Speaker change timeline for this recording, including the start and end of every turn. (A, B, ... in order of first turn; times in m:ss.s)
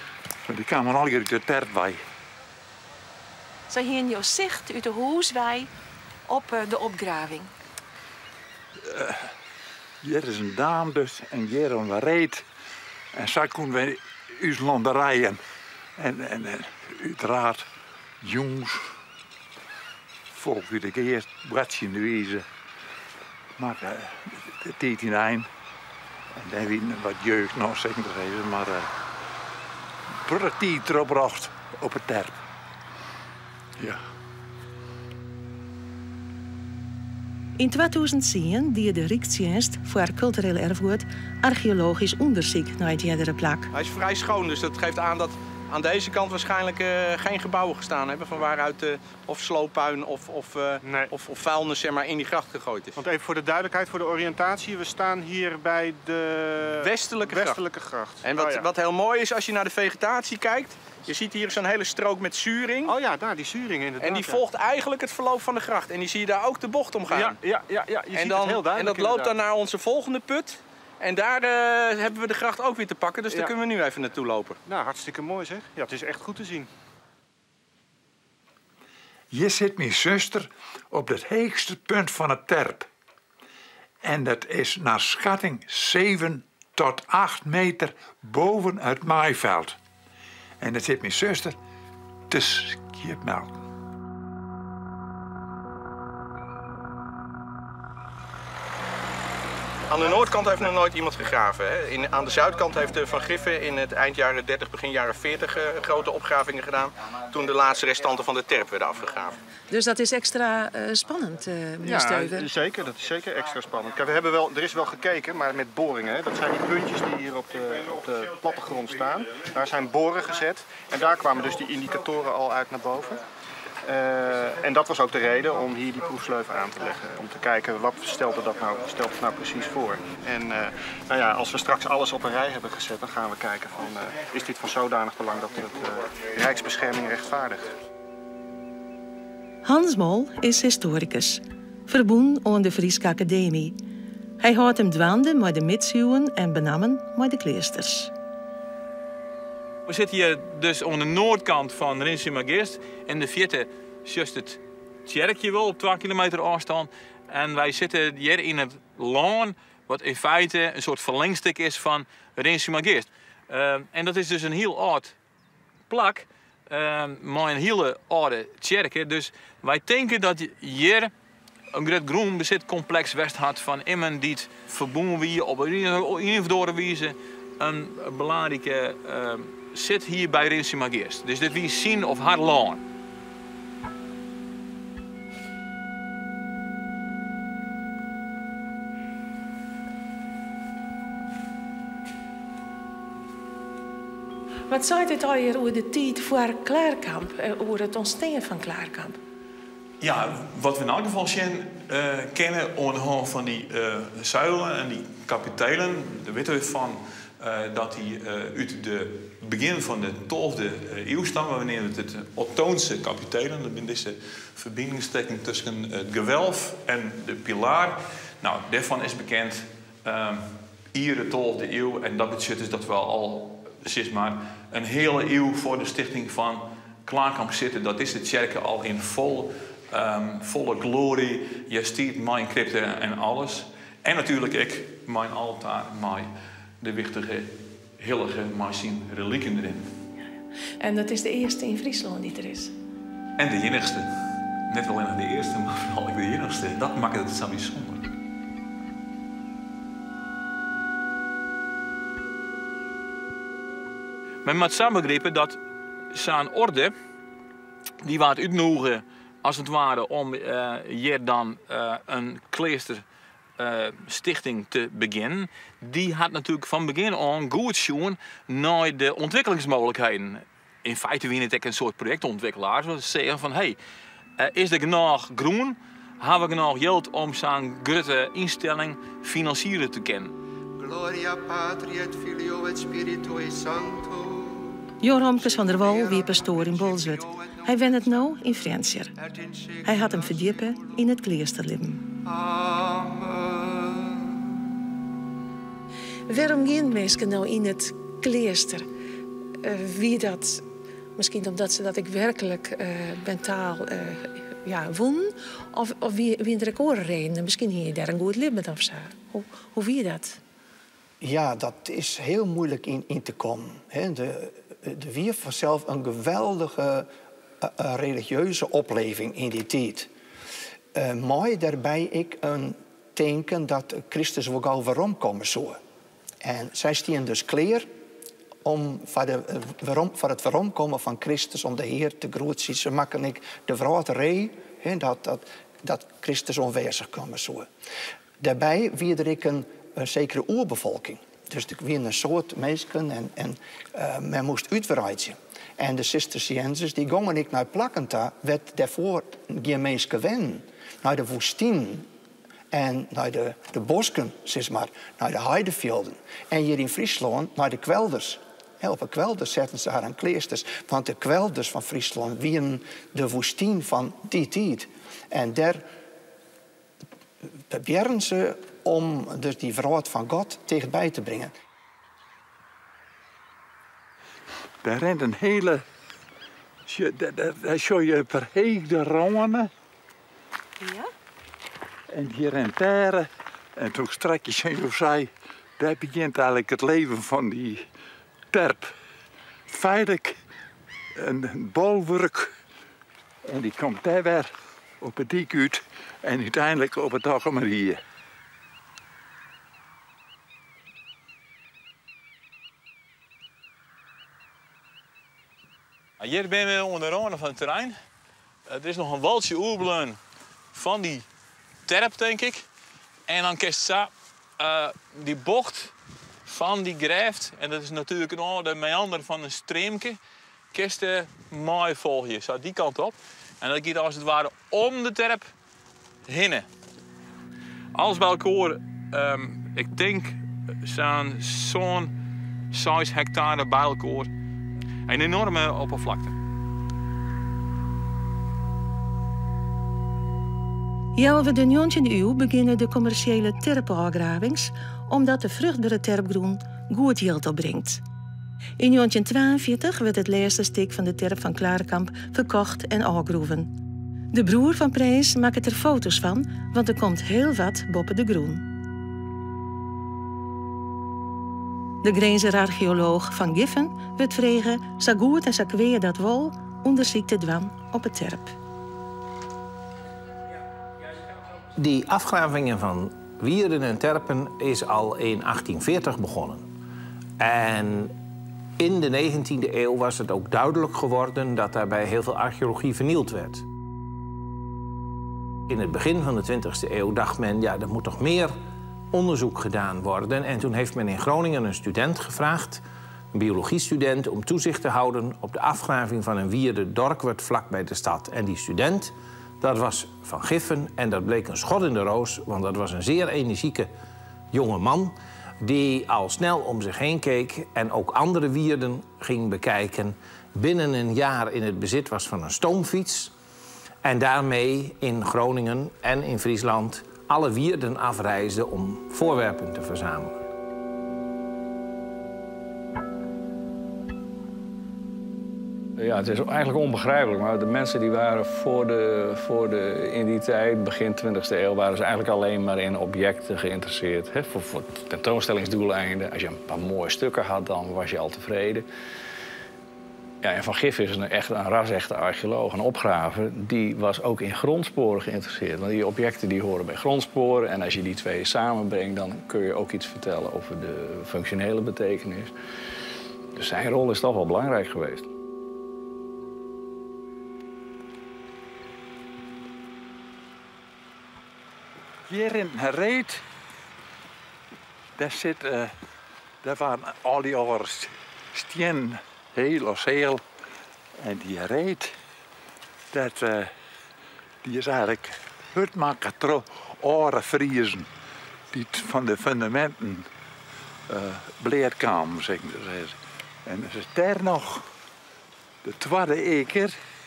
0:00.4-0:02.0 A
0:03.7-0:05.7 B
0:06.3-0:07.5 B
0:08.8-0:09.3 A
0:10.0-0:12.4 A
0:13.1-0:15.4 A
0:16.0-0:17.7 A
0:18.2-0:18.9 A
0:20.3-0:22.4 A
0:23.6-0:25.5 A
0:26.3-0:28.9 A
0:30.2-0:32.4 A
0:37.6-0:43.7 C
0:43.7-0:53.0 D
0:50.8-0:51.1 E
0:53.0-0:58.7 E
0:56.8-0:57.6 D
0:58.2-1:02.9 D
1:02.8-1:04.4 E
1:04.0-1:07.4 D
1:07.1-1:09.4 E
1:08.1-1:14.6 D
1:13.3-1:13.5 E
1:14.7-1:16.7 E
1:19.3-1:22.9 A
1:24.0-1:29.8 A
1:30.6-1:31.6 A
1:32.3-1:33.5 A
1:39.9-1:49.4 D
1:49.7-1:52.4 B
1:51.8-2:03.2 E
2:03.8-2:17.7 E
2:19.6-2:23.7 C
2:24.4-2:28.1 C
2:29.8-2:45.2 F
2:45.9-2:51.1 F
2:51.7-3:02.8 F
3:14.7-3:19.2 C
3:20.0-3:56.3 F
3:56.8-3:59.9 F
4:00.8-4:02.7 C
4:03.4-4:08.1 F
4:14.4-4:15.6 F
4:16.1-4:16.9 F
4:18.0-4:23.0 F
4:23.6-4:33.8 F
4:34.4-4:40.3 F
4:40.8-4:44.6 G
4:45.0-4:49.1 C
4:45.6-4:47.7 G
4:49.4-4:49.7 G
4:49.8-4:52.0 C
4:52.2-4:54.1 G
4:56.8-4:57.4 B
4:57.9-4:58.5 B
4:59.7-5:00.3 B
5:01.2-5:04.1 B
5:04.6-5:05.2 B
5:05.8-5:10.1 B
5:11.2-5:20.1 G
5:20.9-5:25.8 G
5:26.4-5:27.9 G
5:28.6-5:37.7 G
5:38.4-5:52.1 G
5:52.7-6:05.8 G
6:07.7-6:11.5 G
6:14.8-6:15.8 A
6:16.9-6:19.7 A
6:20.8-6:21.1 B
6:22.1-6:27.9 A
6:28.5-6:28.9 A
6:29.7-6:30.4 A
6:31.1-6:32.5 A
6:33.5-6:38.0 A
6:46.2-6:48.0 F
6:48.7-6:50.2 F
6:50.7-6:51.3 F
6:51.9-6:52.6 F
6:53.3-6:55.9 F
6:56.5-7:00.2 F
7:00.7-7:05.5 F
7:06.2-7:06.7 F
7:07.9-7:12.1 F
7:12.7-7:14.3 F
7:15.1-7:16.4 F
7:21.2-7:28.0 C
7:28.8-7:33.7 C
7:34.3-7:38.6 C
7:42.0-7:48.6 C
7:51.8-7:56.7 H
7:57.4-7:58.1 H
7:58.8-8:03.6 H
8:05.7-8:08.6 H
8:09.1-8:23.9 H
8:24.5-8:33.3 H
8:34.0-8:40.4 H
8:46.0-8:58.9 I
9:00.4-9:12.5 I
9:13.6-9:15.3 I
9:22.3-9:23.4 A
9:25.2-9:25.9 A
9:26.6-9:30.4 A
9:31.2-9:32.1 A
9:33.1-9:33.7 A
9:34.6-9:38.1 A
9:38.7-9:40.2 A
9:41.1-9:44.8 A
9:45.8-9:46.9 A